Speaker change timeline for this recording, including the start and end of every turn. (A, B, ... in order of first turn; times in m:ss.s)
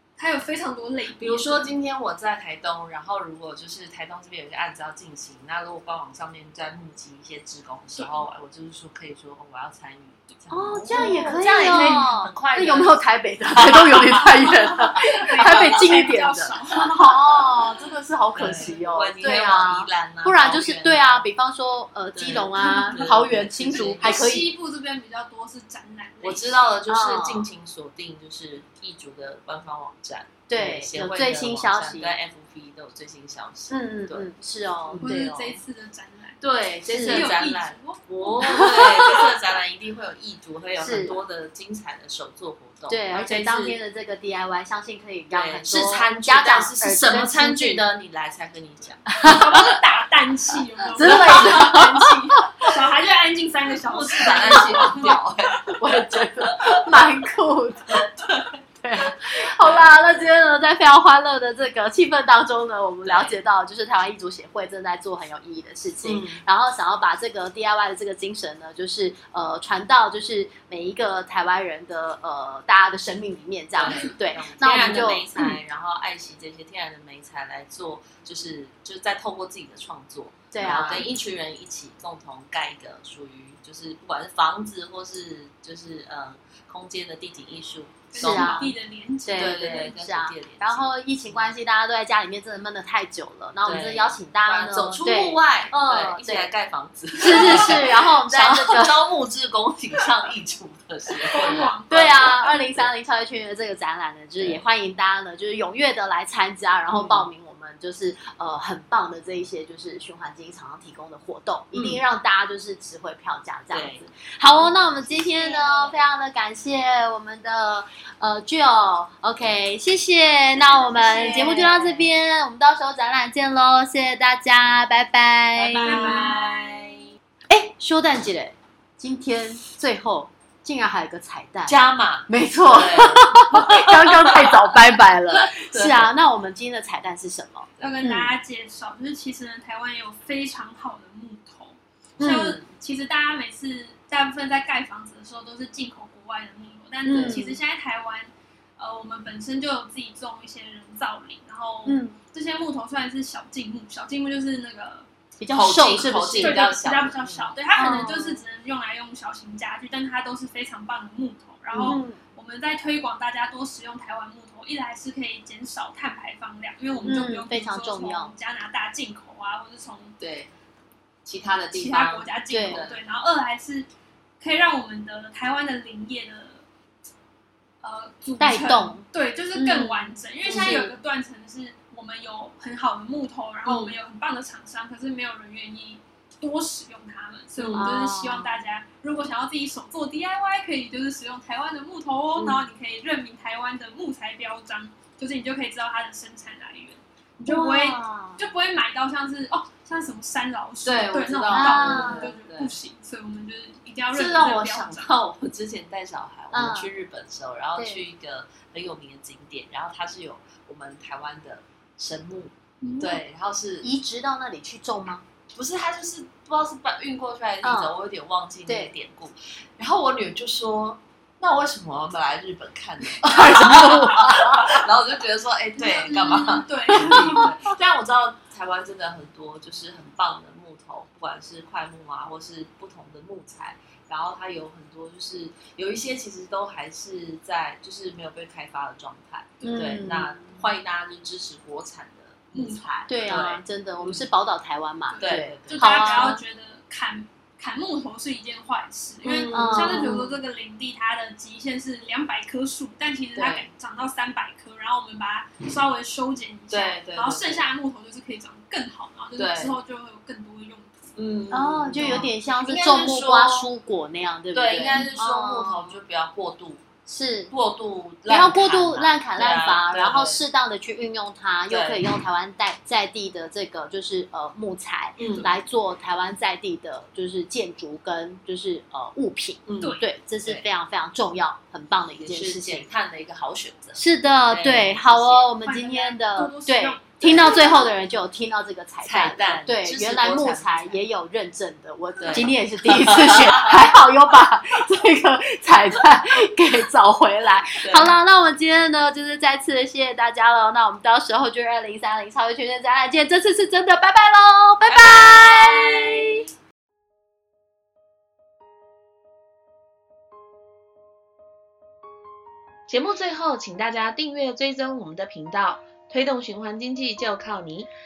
0:00.2-0:01.7 A
0:01.2-0:16.1 B
0:07.9-0:08.2 A
0:10.5-0:24.5 C
0:10.9-0:12.1 A
0:15.0-0:17.2 A
0:18.3-0:21.3 B
0:18.5-0:18.8 A
0:22.2-0:24.3 B
0:22.6-0:23.0 A
0:23.7-0:26.8 A
0:26.2-0:34.3 B
0:26.9-0:27.5 C
0:30.5-0:32.1 C
0:33.7-0:35.6 C
0:34.9-0:35.5 B
0:35.0-0:38.8 A
0:36.4-0:43.8 B
0:36.9-0:37.3 C
0:38.4-0:39.3 C
0:40.8-0:41.2 C
0:42.9-0:47.8 C
0:45.3-0:49.7 B
0:49.2-0:49.6 C
0:49.2-0:55.1 A
0:51.0-0:52.7 C
0:51.0-0:51.8 B
0:53.9-0:56.9 B
0:54.3-0:58.1 C
0:57.9-1:00.0 B
0:58.8-1:15.6 C
1:03.0-1:03.4 B
1:06.0-1:06.4 B
1:13.8-1:28.8 B
1:20.5-1:21.1 C
1:28.1-1:29.9 A
1:28.2-1:28.7 C
1:29.2-1:36.5 C
1:29.3-1:31.5 B
1:33.6-1:42.9 B
1:37.2-1:39.0 C
1:41.2-1:42.6 A
1:41.5-2:06.3 C
1:44.4-1:44.6 B
1:46.9-1:47.3 B
1:51.7-1:52.0 B
1:53.7-1:54.1 B
1:55.4-1:55.9 A
2:00.6-2:01.6 A
2:00.9-2:02.1 B
2:05.6-2:07.1 B
2:05.8-2:06.5 A
2:07.5-2:11.8 C
2:11.7-2:14.8 B
2:12.3-2:18.3 C
2:15.3-2:16.1 B
2:17.8-2:35.1 A
2:22.2-2:22.6 B
2:22.2-2:22.6 C
2:27.1-2:27.4 B
2:27.1-2:27.6 C
2:31.9-2:32.2 C
2:35.4-2:36.6 C
2:35.5-2:37.5 B
2:36.4-2:50.2 A
2:37.8-2:38.4 C
2:41.7-2:42.2 C
2:47.0-2:47.4 B
2:47.0-2:48.3 C
2:50.2-2:50.5 B
2:51.2-2:53.0 B
2:51.7-2:53.9 A
2:52.5-2:52.8 C
2:54.4-2:56.6 A
2:57.8-3:25.1 A
2:58.4-3:01.0 C
3:03.7-3:04.0 C
3:07.6-3:07.9 B
3:07.7-3:08.5 C
3:17.5-3:18.4 C
3:20.8-3:22.8 B
3:21.5-3:22.3 C
3:24.1-3:33.9 B
3:26.5-3:26.9 C
3:27.8-3:28.0 C
3:32.8-3:33.2 A
3:33.8-3:35.2 C
3:35.5-4:04.3 B
3:37.6-3:37.9 C
3:38.7-3:38.9 C
3:43.2-3:44.9 C
3:45.8-3:47.5 A
3:47.0-3:47.5 C
3:59.6-4:00.1 A
3:59.6-4:00.6 C
4:02.5-4:02.9 A
4:03.1-4:06.4 C
4:05.1-4:21.2 A
4:05.2-4:06.3 B
4:09.2-4:10.2 B
4:09.5-4:10.4 C
4:13.4-4:13.7 B
4:16.7-4:17.7 B
4:19.4-4:19.8 B
4:21.2-4:23.7 B
4:21.5-4:26.0 C
4:24.5-4:26.9 B
4:27.1-4:27.5 C
4:27.5-4:30.4 B
4:28.3-4:42.9 C
4:31.7-4:32.0 B
4:35.2-4:35.6 B
4:39.7-4:40.6 B
4:39.8-4:40.1 A
4:42.2-4:45.5 B
4:44.0-5:06.4 C
4:45.6-4:47.9 A
4:47.2-4:47.8 B
4:49.0-4:51.0 B
4:52.2-4:53.8 B
4:57.8-4:58.2 B
5:04.9-5:06.3 B
5:12.9-5:17.9 D
5:13.3-5:16.3 B
5:16.9-5:17.6 B